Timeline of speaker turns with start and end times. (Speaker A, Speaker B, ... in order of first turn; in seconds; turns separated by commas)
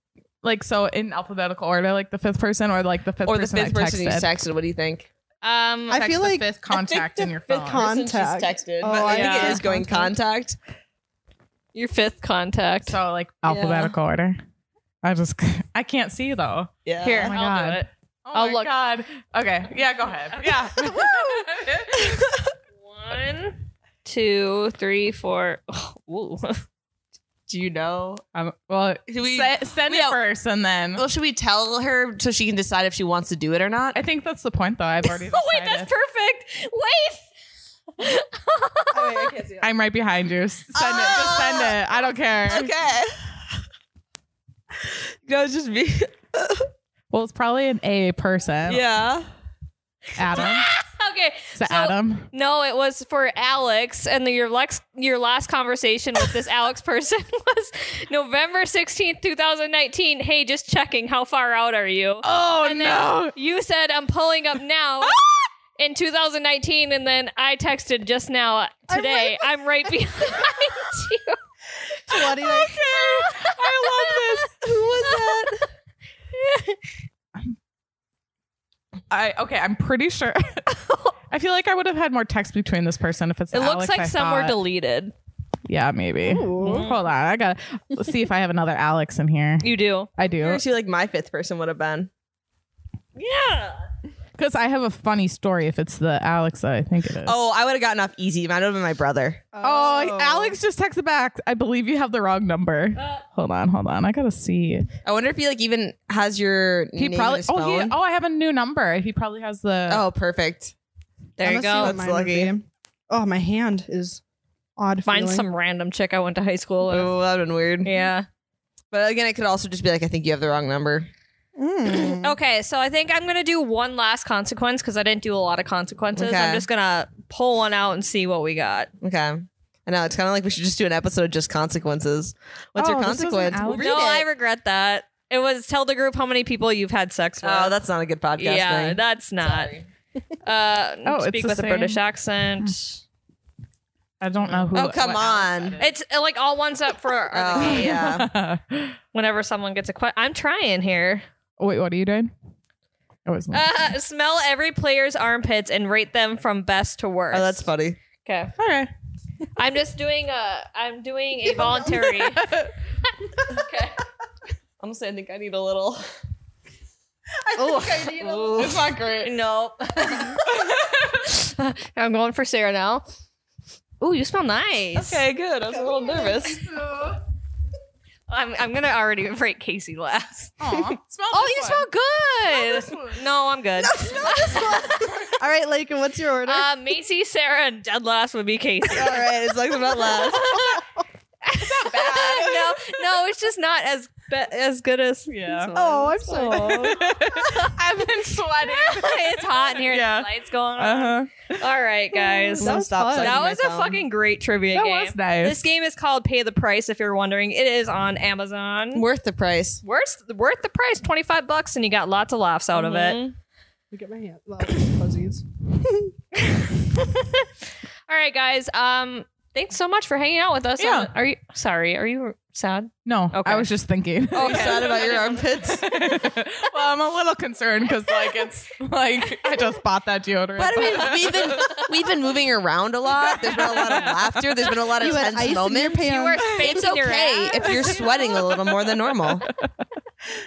Speaker A: 0.4-4.3, Speaker B: 3.2-5.1, Speaker C: 5.4-6.1, Speaker D: 5.9-6.5, Speaker A: 5.9-8.0, Speaker B: 6.7-10.6, Speaker D: 7.6-10.1, Speaker C: 8.9-9.6, Speaker C: 11.7-13.9, Speaker A: 12.8-14.4, Speaker A: 15.0-22.4, Speaker B: 16.9-17.3, Speaker C: 17.2-18.6, Speaker C: 22.8-26.6, Speaker B: 27.5-28.2, Speaker A: 28.3-31.0, Speaker B: 29.1-30.2, Speaker B: 30.9-34.0, Speaker A: 33.9-35.9, Speaker C: 35.1-37.3, Speaker C: 38.0-39.3, Speaker D: 38.9-39.7, Speaker A: 39.6-42.7, Speaker B: 40.7-41.8, Speaker B: 42.5-43.3, Speaker B: 44.8-46.7, Speaker A: 47.1-48.8, Speaker B: 48.6-49.3, Speaker A: 50.1-50.7, Speaker C: 50.3-65.2, Speaker A: 51.5-52.3, Speaker A: 62.2-63.3, Speaker A: 65.0-65.4, Speaker C: 65.8-71.4, Speaker D: 68.9-69.5, Speaker D: 72.1-72.8, Speaker A: 72.3-74.6, Speaker C: 72.9-74.5, Speaker D: 74.8-75.6, Speaker B: 75.0-75.2, Speaker C: 75.0-75.5, Speaker C: 76.3-76.8, Speaker A: 79.1-80.7, Speaker C: 80.8-81.1, Speaker A: 81.3-84.6, Speaker C: 83.5-85.1, Speaker A: 85.7-90.6, Speaker D: 86.2-86.9, Speaker C: 86.6-87.0, Speaker C: 89.6-90.1, Speaker B: 90.2-92.1, Speaker C: 93.2-93.8, Speaker A: 94.4-97.3, Speaker B: 97.2-99.4, Speaker D: 99.5-100.6, Speaker A: 99.6-104.9, Speaker C: 102.9-103.2, Speaker B: 105.0-107.9, Speaker A: 107.0-110.0, Speaker B: 109.9-110.7, Speaker C: 111.4-112.0, Speaker D: 111.4-114.2, Speaker B: 111.6-112.5, Speaker D: 114.8-115.5, Speaker C: 115.0-117.1, Speaker B: 116.9-118.1, Speaker C: 117.8-118.2, Speaker B: 118.9-121.1, Speaker D: 121.5-122.4, Speaker C: 121.8-128.9, Speaker B: 126.1-126.7, Speaker B: 129.0-134.2, Speaker A: 132.7-134.1, Speaker D: 133.5-133.7, Speaker C: 133.7-137.8, Speaker B: 137.4-139.8, Speaker C: 138.4-139.7, Speaker C: 140.4-143.0, Speaker A: 141.1-142.0, Speaker A: 144.2-145.9, Speaker B: 144.7-145.8, Speaker C: 145.8-148.0, Speaker B: 147.3-148.3, Speaker A: 147.6-149.0, Speaker C: 149.1-151.2, Speaker A: 151.6-152.3, Speaker A: 153.2-153.7, Speaker C: 153.5-157.7, Speaker B: 157.3-158.0, Speaker C: 158.2-158.5, Speaker A: 158.6-158.9, Speaker C: 159.6-162.7, Speaker A: 161.7-162.7, Speaker C: 163.5-164.0, Speaker B: 164.8-166.0, Speaker D: 167.4-168.9, Speaker C: 167.6-173.0, Speaker A: 168.5-169.3, Speaker B: 168.6-168.9, Speaker A: 170.5-171.0, Speaker C: 174.0-175.2, Speaker B: 174.9-176.6, Speaker D: 175.7-177.2, Speaker C: 178.3-180.5, Speaker A: 180.6-181.8, Speaker C: 181.3-185.1, Speaker A: 182.8-183.1, Speaker D: 183.8-186.7, Speaker C: 186.4-189.2, Speaker B: 188.9-190.7, Speaker C: 190.1-190.8, Speaker C: 191.4-197.7, Speaker A: 191.5-192.8, Speaker A: 195.3-195.7, Speaker D: 195.7-197.2, Speaker A: 196.5-201.4, Speaker C: 198.6-209.0, Speaker D: 202.5-203.4, Speaker B: 202.6-204.0, Speaker A: 204.7-205.7, Speaker B: 208.9-209.8, Speaker C: 209.8-213.2, Speaker B: 212.7-213.3, Speaker D: 213.9-216.1, Speaker C: 216.3-217.5, Speaker C: 218.1-223.7, Speaker A: 220.8-221.1, Speaker A: 223.0-225.0, Speaker C: 224.3-225.5, Speaker B: 224.3-225.9, Speaker A: 225.6-231.9, Speaker B: 230.6-239.5, Speaker A: 233.3-235.2, Speaker D: 235.0-236.8, Speaker C: 235.9-238.2, Speaker A: 237.4-239.7